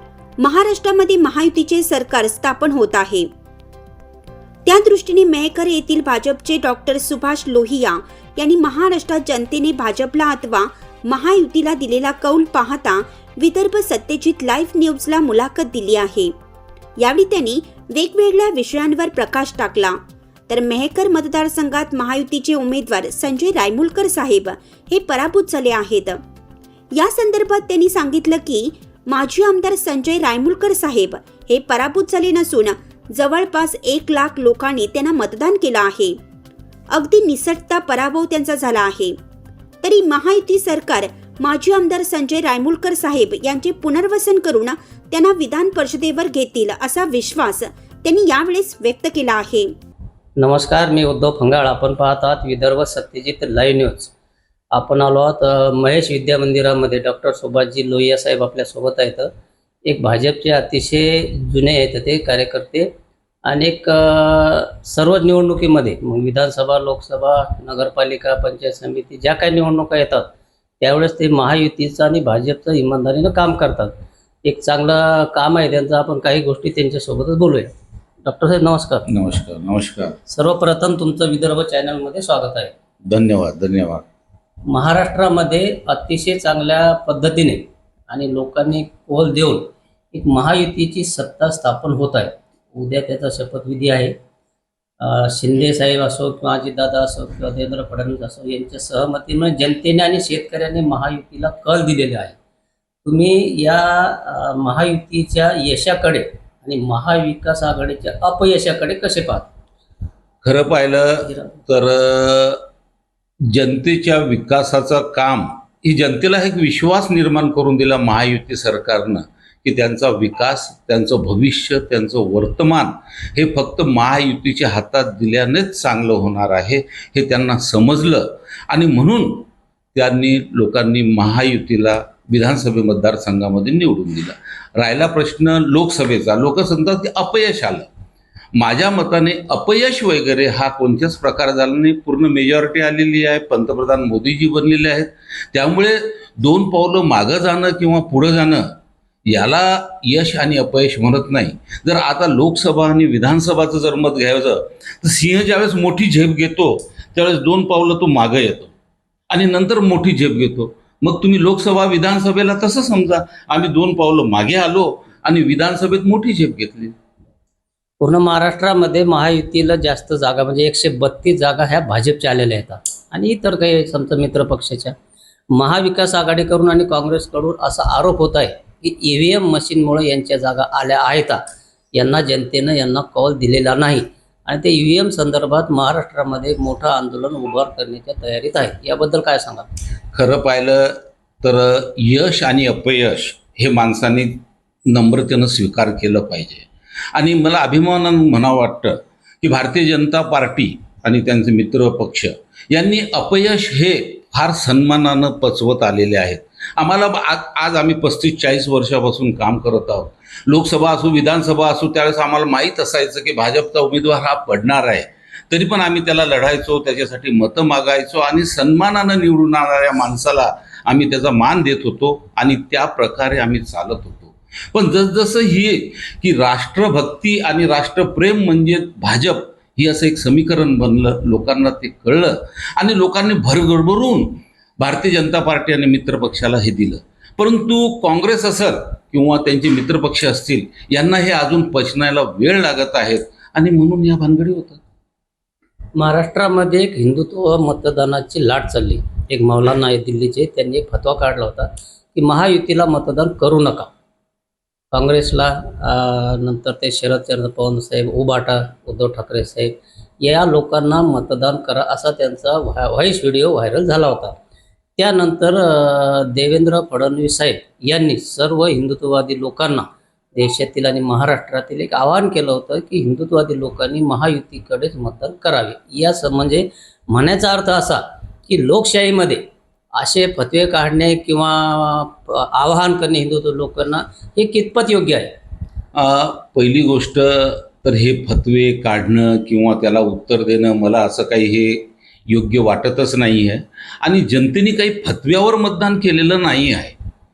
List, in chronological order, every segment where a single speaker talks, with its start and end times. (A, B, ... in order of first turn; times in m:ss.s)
0:00.4-0:03.3 A
0:04.7-0:16.3 A
0:17.0-0:20.0 A
0:20.5-0:26.2 A
0:26.9-0:36.2 A
0:36.9-0:39.2 A
0:39.8-0:49.7 A
0:50.4-0:54.1 B
0:54.7-0:59.3 B
0:59.9-1:02.9 B
1:03.5-1:10.3 B
1:10.8-1:17.7 B
1:18.2-1:19.1 B
1:19.1-1:20.2 C
1:20.3-1:22.7 B
1:23.1-1:24.0 C
1:24.7-1:34.2 B
1:35.0-1:42.4 B
1:43.0-1:49.5 B
1:50.4-1:52.6 C
1:53.4-2:17.9 C
2:18.6-2:28.7 C
2:29.3-2:38.7 C
2:39.3-2:47.0 C
2:48.0-2:54.9 B
2:55.5-3:01.4 B
3:01.9-3:09.7 B
3:10.1-4:04.8 C
4:06.0-4:13.9 B
4:14.9-4:24.4 B
4:25.0-4:39.4 B
4:40.0-4:45.3 B
4:46.0-4:57.0 C